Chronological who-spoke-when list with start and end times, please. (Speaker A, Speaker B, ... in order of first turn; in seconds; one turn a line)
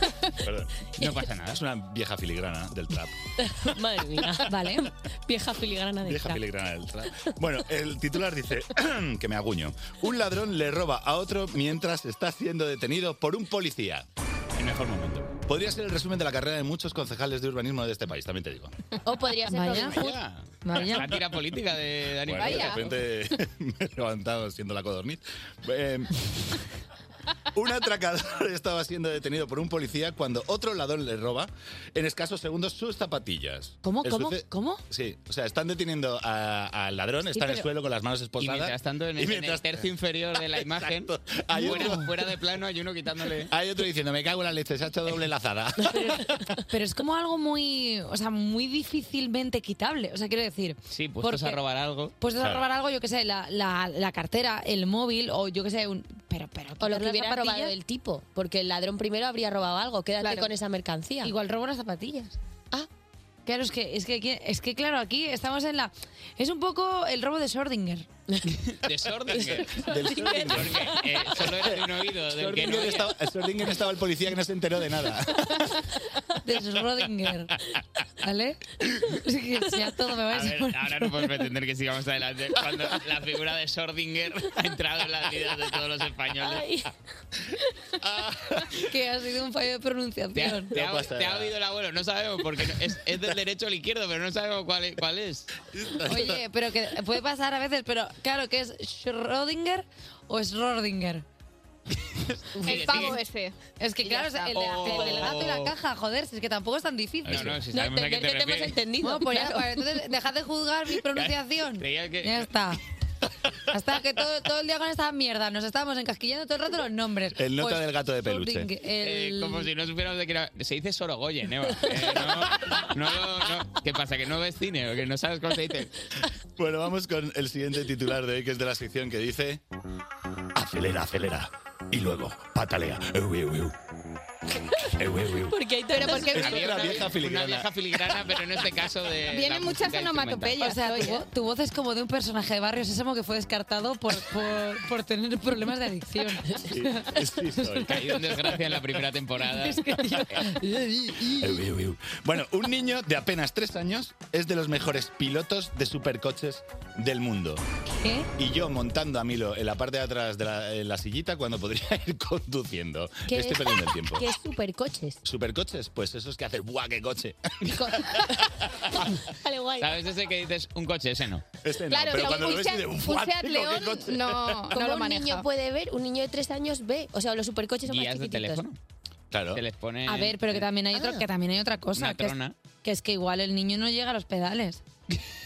Speaker A: 0.4-0.7
Speaker B: 1.0-1.6
Speaker A: 1.5-3.1
Speaker C: 3.6-4.5
Speaker D: 4.5-4.9
Speaker C: 5.3-6.4
Speaker A: 6.0-14.1
Speaker B: 14.6-15.3
Speaker A: 15.5-18.7
Speaker C: 19.1-20.2
Speaker D: 19.5-20.0
Speaker B: 19.8-22.8
Speaker D: 20.6-21.1
Speaker A: 22.2-26.6
Speaker E: 22.4-22.8
Speaker A: 27.5-42.2
Speaker D: 33.8-34.8
Speaker D: 37.3-37.7
Speaker B: 38.4-43.5
Speaker D: 41.6-42.0
Speaker A: 43.5-46.6
Speaker D: 45.9-51.6
Speaker B: 50.9-52.1
Speaker D: 52.2-57.7
Speaker A: 52.4-52.6
Speaker C: 56.8-61.3
Speaker E: 60.2-60.5
Speaker D: 61.2-62.4
Speaker D: 63.5-68.1
Speaker B: 68.5-73.1
Speaker A: 69.3-75.8
Speaker C: 70.0-70.8
Speaker D: 76.4-77.6
Speaker D: 78.2-81.2
Speaker B: 80.3-86.7
Speaker C: 86.4-86.9
Speaker A: 88.0-88.7
Speaker D: 88.8-90.7
Speaker B: 90.3-95.5
Speaker A: 90.7-91.5
Speaker A: 95.7-96.4
Speaker D: 96.0-101.2
Speaker B: 102.3-103.2
Speaker E: 102.6-105.4
Speaker D: 103.8-107.6
Speaker B: 104.5-105.7
Speaker B: 107.3-108.8
Speaker A: 107.3-107.6
Speaker C: 107.7-109.8
Speaker D: 109.0-112.8
Speaker B: 111.1-112.5
Speaker D: 113.7-119.7
Speaker A: 117.4-118.7
Speaker B: 119.0-125.9
Speaker A: 126.6-129.6
Speaker A: 130.6-133.7
Speaker A: 135.0-135.6
Speaker C: 135.4-136.4
Speaker E: 135.9-136.8
Speaker A: 136.1-137.7
Speaker B: 136.3-140.6
Speaker E: 139.3-141.2
Speaker D: 140.6-148.7
Speaker A: 146.6-148.2
Speaker B: 147.8-150.4
Speaker D: 149.4-150.7
Speaker A: 151.3-157.6
Speaker D: 158.0-158.3
Speaker A: 158.4-164.2
Speaker C: 163.3-165.2
Speaker A: 165.2-168.5
Speaker C: 169.3-170.0
Speaker B: 169.8-171.4
Speaker A: 171.6-174.7
Speaker E: 171.9-175.5
Speaker C: 174.7-178.7
Speaker B: 177.9-178.8
Speaker A: 179.3-179.6
Speaker B: 179.5-180.6
Speaker D: 180.1-184.8
Speaker C: 180.9-181.2
Speaker B: 182.0-182.5